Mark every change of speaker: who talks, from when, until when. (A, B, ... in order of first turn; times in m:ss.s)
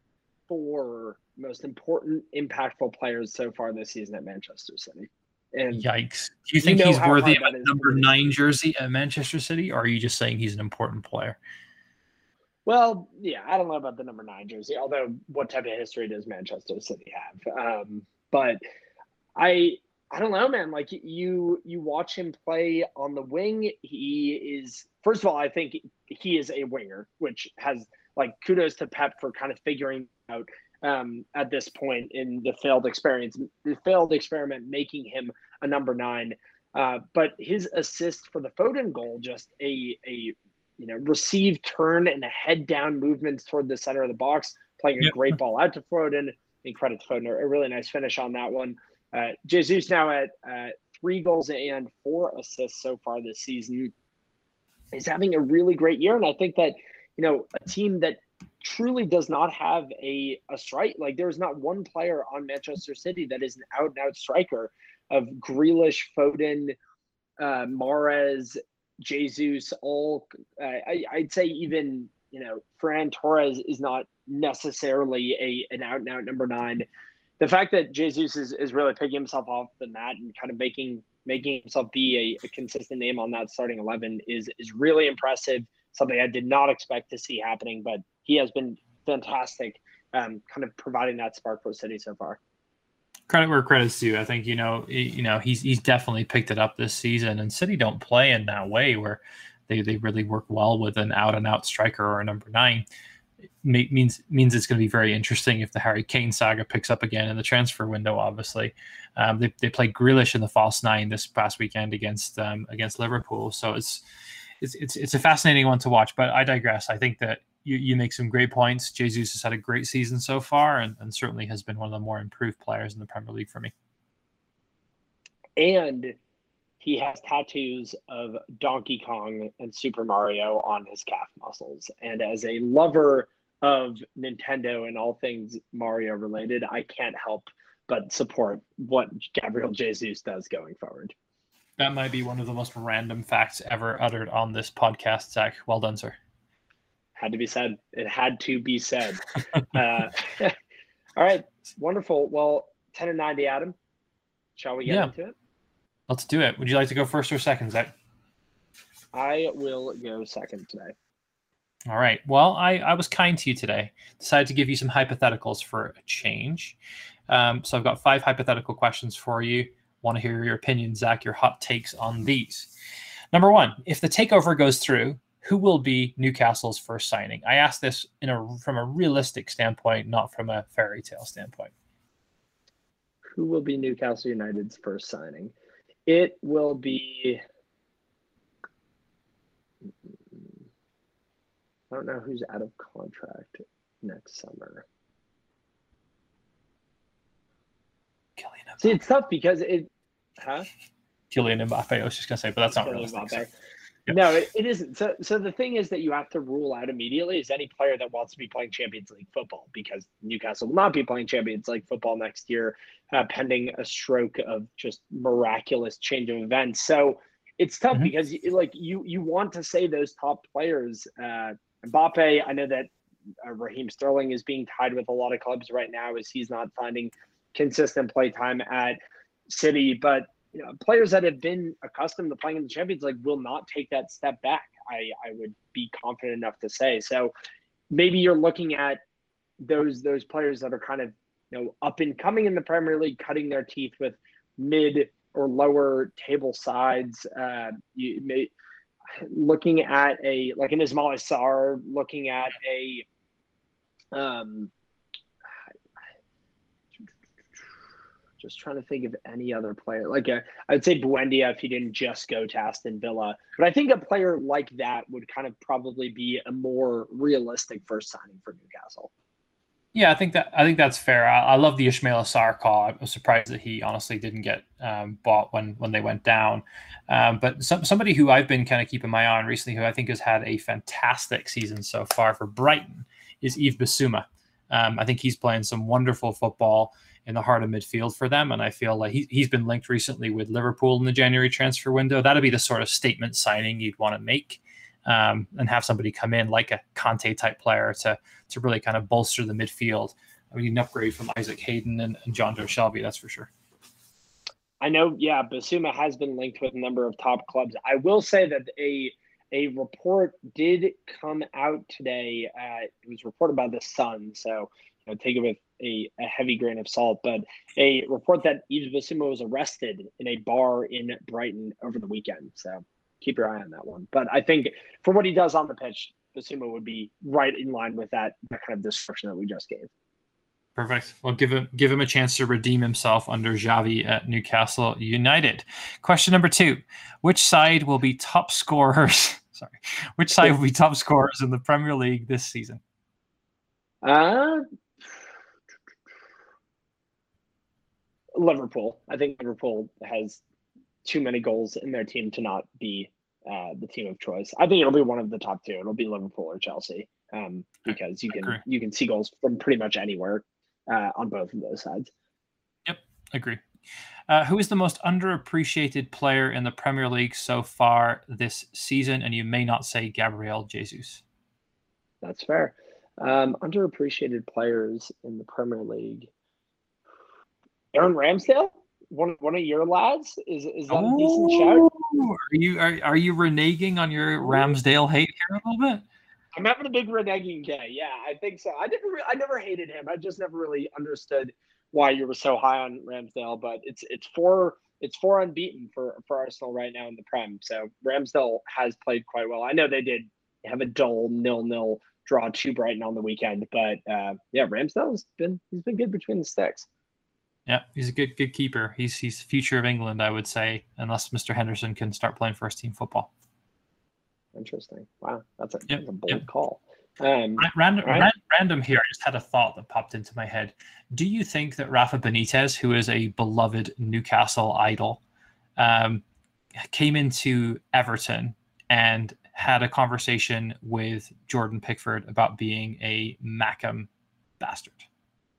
0:00.5-0:05.8 A
0:05.7-0:11.4 B
0:06.6-0:08.1 A
0:12.6-0:18.6 A
0:19.4-0:53.9 A
0:45.0-0:45.3 B
0:54.9-1:06.8 A
1:07.4-1:16.8 A
1:17.4-1:32.4 A
1:33.3-1:42.8 B
1:43.6-1:54.0 B
1:54.6-2:03.7 B
2:05.6-2:06.1 A
2:06.8-2:21.1 A
2:21.8-2:26.2 B
2:27.2-2:30.5 A
2:31.2-2:33.8 A
2:34.6-2:35.3 A
2:34.8-2:35.1 B
2:36.1-2:37.9 B
2:39.1-2:40.9 A
2:41.9-2:46.8 B
2:47.3-2:52.7 B
2:53.3-3:01.7 B
3:03.4-3:05.5 A
3:06.1-3:07.4 A
3:09.8-3:10.6 A
3:11.9-3:14.8 A
3:18.4-3:19.0 B
3:18.8-3:20.7 A
3:21.3-3:23.5 B
3:22.7-3:23.5 A
3:24.1-3:42.9 A
3:43.4-3:57.3 A
3:57.9-3:59.0 A
3:59.6-4:08.5 A
4:09.2-4:13.0 A
4:14.1-4:14.7 A
4:18.4-4:29.1 A
4:29.9-5:03.5 B
5:04.8-5:29.9 A
5:30.8-5:42.8 B
5:44.0-5:44.6 A
5:48.3-5:50.4 A
5:51.0-6:02.1 A
5:57.9-5:58.6 B
6:02.8-6:03.6 B
6:04.3-6:11.2 B
6:12.2-6:16.3 A
6:17.9-6:21.9 A
6:20.9-6:26.0 B
6:24.4-6:24.7 A
6:26.5-6:46.9 A
6:47.6-6:53.3 B
6:54.5-6:58.3 A
6:55.9-6:56.4 B
6:57.6-7:05.2 B
7:05.8-7:06.2 B
7:06.8-7:14.1 B
7:14.6-7:15.0 B